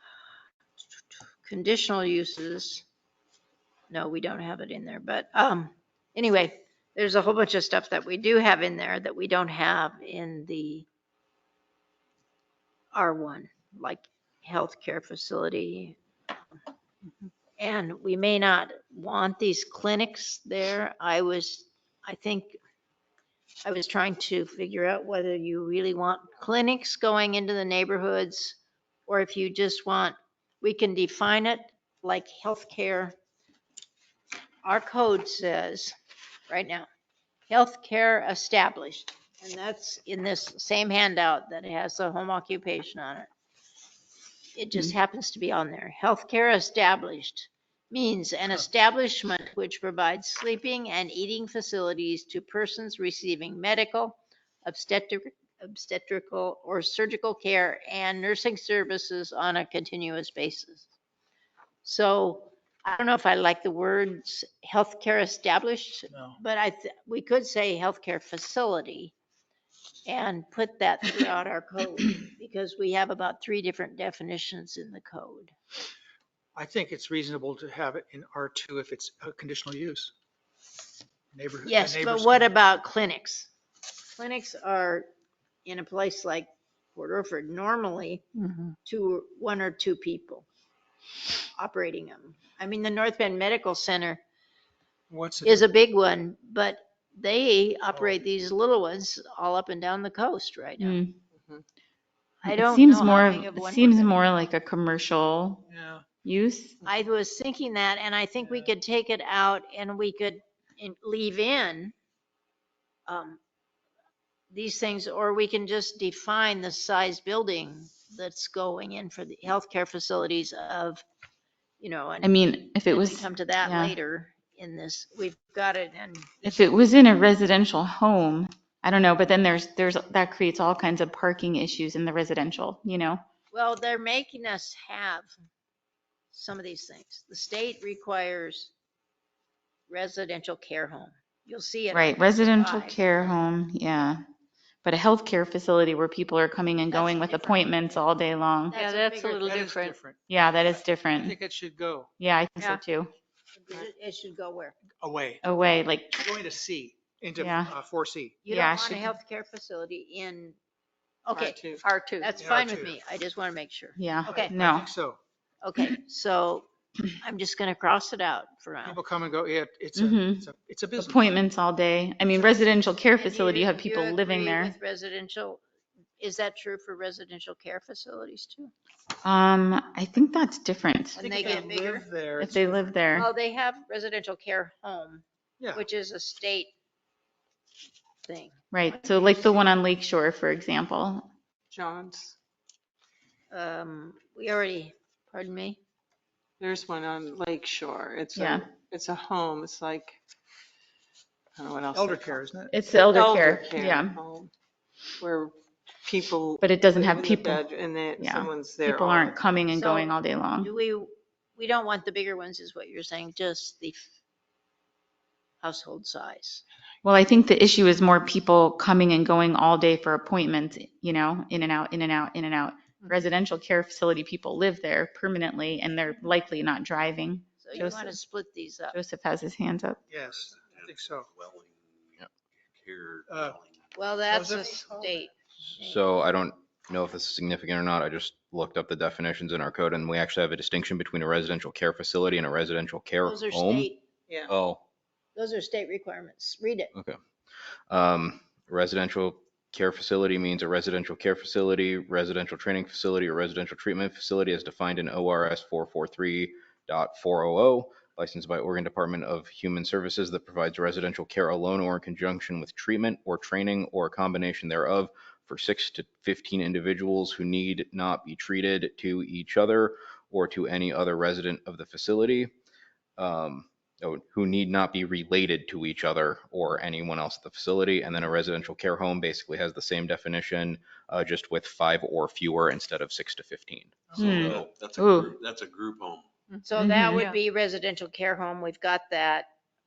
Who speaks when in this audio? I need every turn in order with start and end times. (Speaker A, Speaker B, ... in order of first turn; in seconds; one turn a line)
Speaker A: 1.4-2.8
Speaker A: 3.9-10.8
Speaker A: 12.9-16.0
Speaker A: 17.6-22.6
Speaker A: 23.6-33.1
Speaker A: 34.6-36.0
Speaker A: 36.5-36.9
Speaker A: 37.5-43.3
Speaker A: 44.5-60.9
Speaker A: 61.8-69.1
Speaker B: 66.1-66.4
Speaker A: 70.1-75.5
Speaker B: 76.6-80.1
Speaker B: 81.3-82.5
Speaker A: 81.7-83.5
Speaker A: 84.2-85.1
Speaker A: 85.7-88.2
Speaker A: 88.8-90.5
Speaker A: 91.6-94.2
Speaker B: 95.1-95.7
Speaker A: 95.4-101.0
Speaker C: 100.8-101.1
Speaker D: 101.4-101.6
Speaker A: 102.5-104.2
Speaker C: 102.5-105.6
Speaker B: 105.7-106.0
Speaker C: 106.2-106.8
Speaker A: 106.8-111.9
Speaker A: 113.1-113.4
Speaker A: 114.5-121.0
Speaker A: 121.8-126.6
Speaker C: 122.2-123.9
Speaker C: 126.4-133.2
Speaker A: 133.5-135.3
Speaker A: 136.3-138.7
Speaker A: 139.9-143.0
Speaker C: 141.9-144.2
Speaker C: 144.8-148.8
Speaker A: 146.9-147.8
Speaker A: 148.7-149.6
Speaker D: 148.7-150.0
Speaker B: 149.4-150.2
Speaker C: 150.3-151.4
Speaker B: 151.2-152.1
Speaker C: 152.2-153.1
Speaker A: 153.6-154.8
Speaker B: 155.0-155.4
Speaker C: 155.4-156.2
Speaker B: 156.2-158.4
Speaker C: 157.4-157.7
Speaker A: 158.4-160.6
Speaker C: 158.5-159.1
Speaker A: 161.2-161.6
Speaker D: 161.3-162.4
Speaker A: 162.2-164.5
Speaker B: 162.4-162.9
Speaker C: 164.0-164.9
Speaker B: 164.2-165.2
Speaker A: 165.6-166.7
Speaker A: 167.2-169.0
Speaker B: 168.8-171.3
Speaker C: 170.0-170.5
Speaker C: 171.0-174.8
Speaker A: 172.3-172.6
Speaker A: 173.2-175.6
Speaker A: 176.2-178.7
Speaker C: 179.2-181.5
Speaker B: 181.2-182.8
Speaker A: 181.2-182.1
Speaker C: 182.4-183.3
Speaker A: 183.1-186.7
Speaker B: 185.6-185.8
Speaker A: 188.2-188.6
Speaker C: 188.7-191.3
Speaker D: 191.7-192.3
Speaker A: 193.5-195.8
Speaker D: 196.6-200.2
Speaker C: 198.3-198.7
Speaker D: 201.6-204.5
Speaker B: 201.9-202.7
Speaker C: 202.7-204.2
Speaker D: 205.2-209.4
Speaker C: 206.6-207.6
Speaker C: 208.2-210.7
Speaker A: 209.7-214.1
Speaker A: 215.6-216.6
Speaker C: 217.0-228.2
Speaker A: 227.6-229.0
Speaker C: 228.9-230.0
Speaker B: 230.1-231.3
Speaker E: 230.2-235.1
Speaker B: 233.3-233.6
Speaker A: 233.9-236.0
Speaker B: 234.3-235.0
Speaker F: 235.8-243.9
Speaker A: 243.2-244.0
Speaker F: 244.5-244.8
Speaker A: 245.4-246.9
Speaker F: 246.9-247.2
Speaker F: 247.9-272.5
Speaker F: 273.2-284.0
Speaker B: 284.1-284.4
Speaker C: 284.2-285.4
Speaker E: 284.2-286.3
Speaker A: 286.6-289.5
Speaker C: 286.8-287.3